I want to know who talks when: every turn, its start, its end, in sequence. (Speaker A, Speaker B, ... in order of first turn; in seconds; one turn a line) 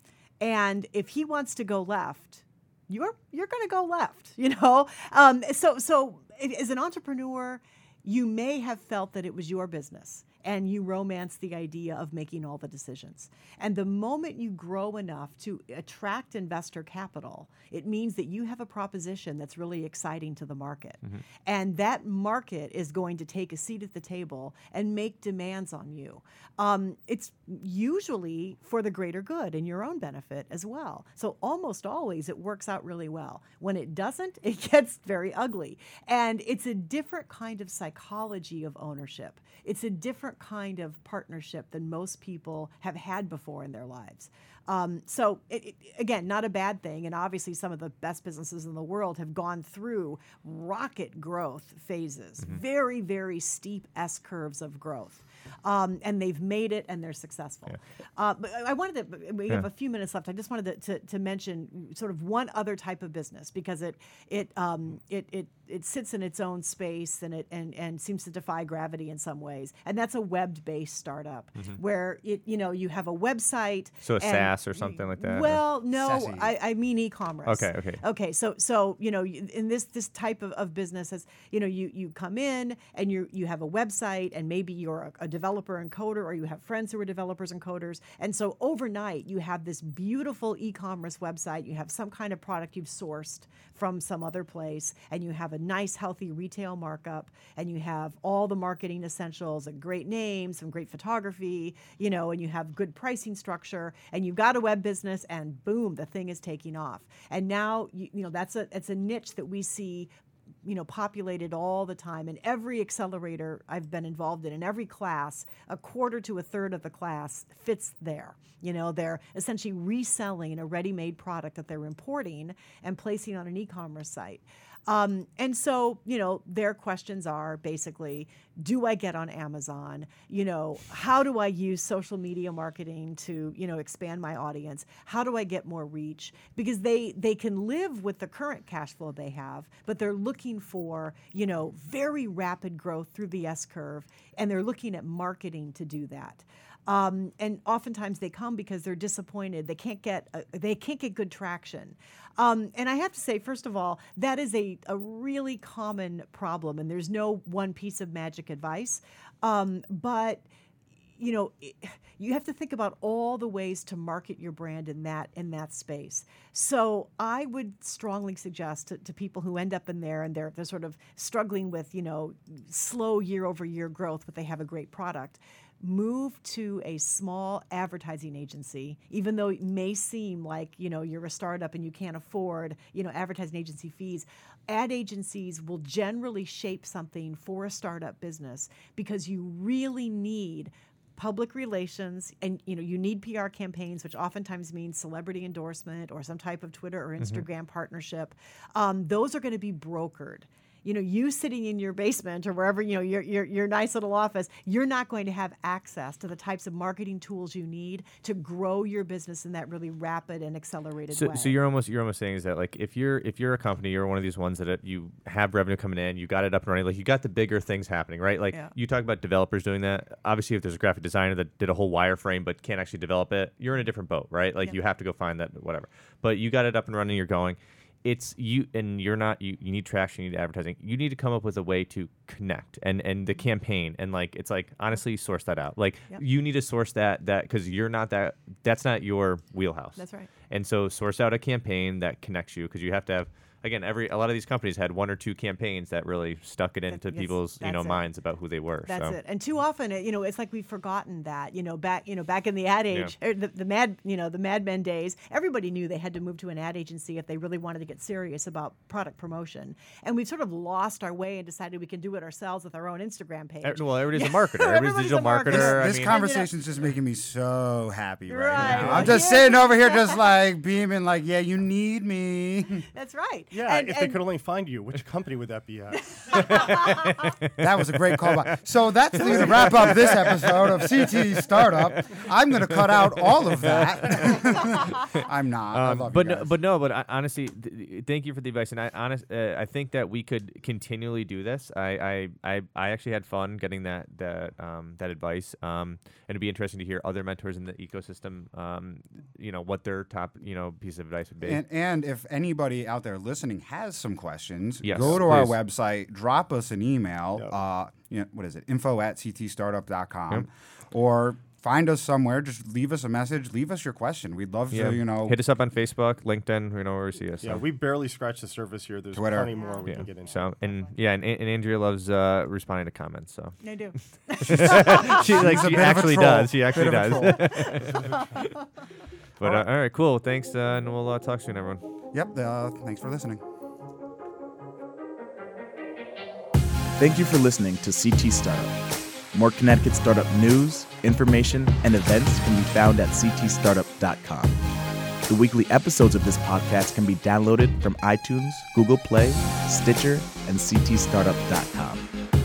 Speaker A: 0.4-110.1
Speaker B: 74.0-75.6
Speaker C: 75.9-76.5
Speaker B: 77.4-78.0
Speaker A: 110.6-160.4
Speaker A: 161.2-211.5
Speaker B: 197.2-197.4
Speaker B: 211.1-249.2
Speaker A: 239.9-240.3
Speaker A: 246.9-248.0
Speaker A: 248.8-266.5
Speaker B: 263.6-266.2
Speaker C: 265.5-272.9
Speaker A: 268.3-270.2
Speaker B: 268.6-269.1
Speaker A: 272.9-274.2
Speaker D: 273.5-276.6
Speaker A: 276.1-277.1
Speaker B: 276.3-278.6
Speaker C: 277.6-286.5
Speaker B: 279.1-301.6
Speaker C: 301.4-315.4
Speaker B: 304.8-305.6
Speaker B: 314.7-317.6
Speaker D: 317.4-320.4
Speaker C: 319.1-319.5
Speaker A: 319.5-320.9
Speaker B: 319.9-323.6
Speaker A: 323.6-325.4
Speaker B: 324.3-328.5
Speaker C: 324.5-328.1
Speaker A: 327.3-328.6
Speaker B: 329.4-331.8
Speaker C: 329.4-329.6
Speaker C: 332.1-333.4
Speaker E: 337.0-338.8
Speaker E: 339.3-344.6
Speaker E: 345.3-352.1